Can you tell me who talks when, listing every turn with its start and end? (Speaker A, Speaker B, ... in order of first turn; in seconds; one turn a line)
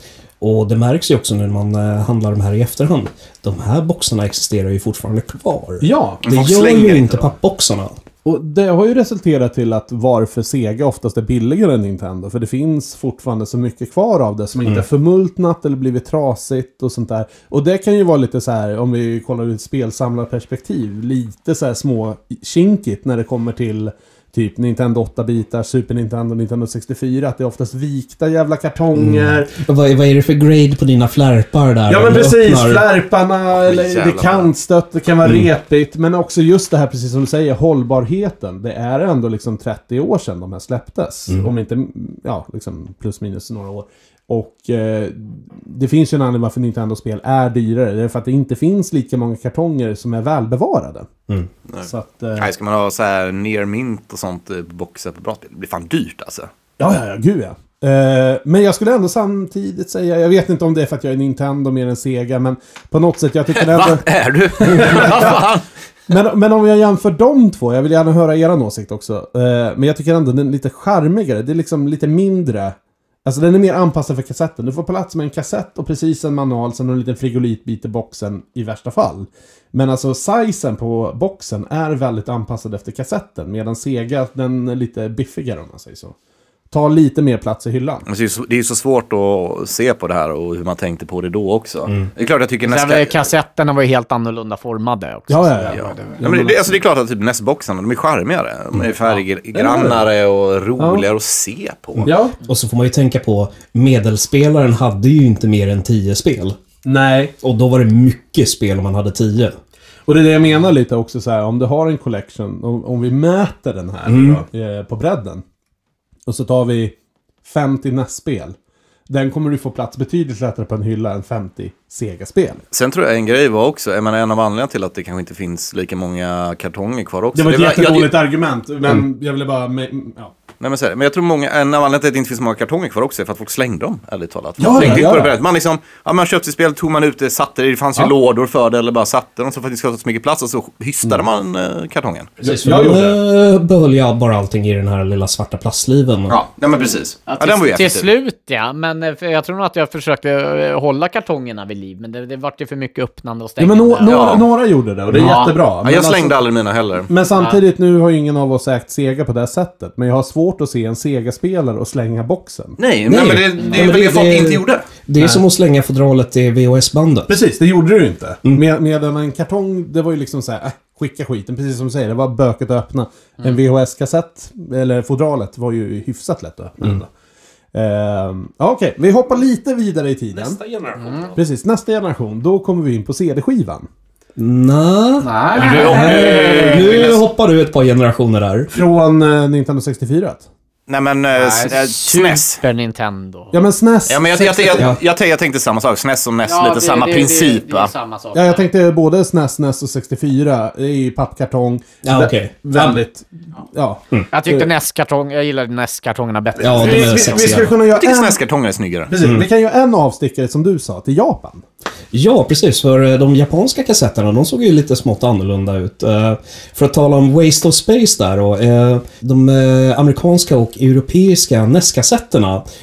Speaker A: 0.4-7.9
Speaker B: 5.8-6.2
Speaker C: 6.2-7.3
Speaker B: 8.2-29.6
Speaker A: 29.0-32.9
Speaker B: 31.9-51.1
Speaker C: 33.5-34.5
Speaker C: 51.7-56.5
Speaker B: 51.8-52.5
Speaker B: 56.8-64.1
Speaker C: 63.6-65.7
Speaker B: 64.6-65.5
Speaker B: 66.1-86.2
Speaker B: 86.7-88.0
Speaker C: 88.1-93.3
Speaker D: 92.7-96.2
Speaker B: 95.3-96.8
Speaker C: 95.7-102.1
Speaker B: 99.5-100.0
Speaker B: 100.8-101.0
Speaker A: 102.0-106.6
Speaker B: 102.0-102.3
Speaker B: 106.8-107.3
Speaker A: 107.4-109.6
Speaker B: 110.1-115.4
Speaker A: 114.1-114.4
Speaker B: 116.3-118.6
Speaker B: 119.1-122.7
Speaker C: 122.7-128.1
Speaker B: 127.3-130.3
Speaker C: 130.6-142.4
Speaker B: 134.6-135.4
Speaker B: 142.4-143.2
Speaker A: 142.4-146.4
Speaker C: 146.3-148.1
Speaker D: 147.3-154.4
Speaker B: 153.6-156.4
Speaker C: 154.0-154.4
Speaker D: 155.1-155.6
Speaker C: 155.8-157.1
Speaker B: 157.1-162.8
Speaker C: 162.8-164.9
Speaker A: 163.1-167.4
Speaker B: 165.2-165.4
Speaker B: 167.3-177.1
Speaker B: 177.7-180.6
Speaker A: 180.5-181.2
Speaker D: 181.0-181.3
Speaker B: 181.3-183.9
Speaker A: 184.4-188.7
Speaker D: 185.2-187.1
Speaker C: 185.6-187.2
Speaker B: 188.7-190.5
Speaker C: 190.9-192.6
Speaker D: 191.3-193.5
Speaker B: 193.5-194.9
Speaker C: 194.1-197.9
Speaker D: 196.4-198.6
Speaker B: 198.3-204.7
Speaker A: 202.0-202.9
Speaker D: 204.3-207.6
Speaker A: 206.6-207.7
Speaker B: 206.6-208.4
Speaker C: 207.9-209.1
Speaker B: 209.1-211.7
Speaker A: 209.2-209.5
Speaker A: 212.1-222.6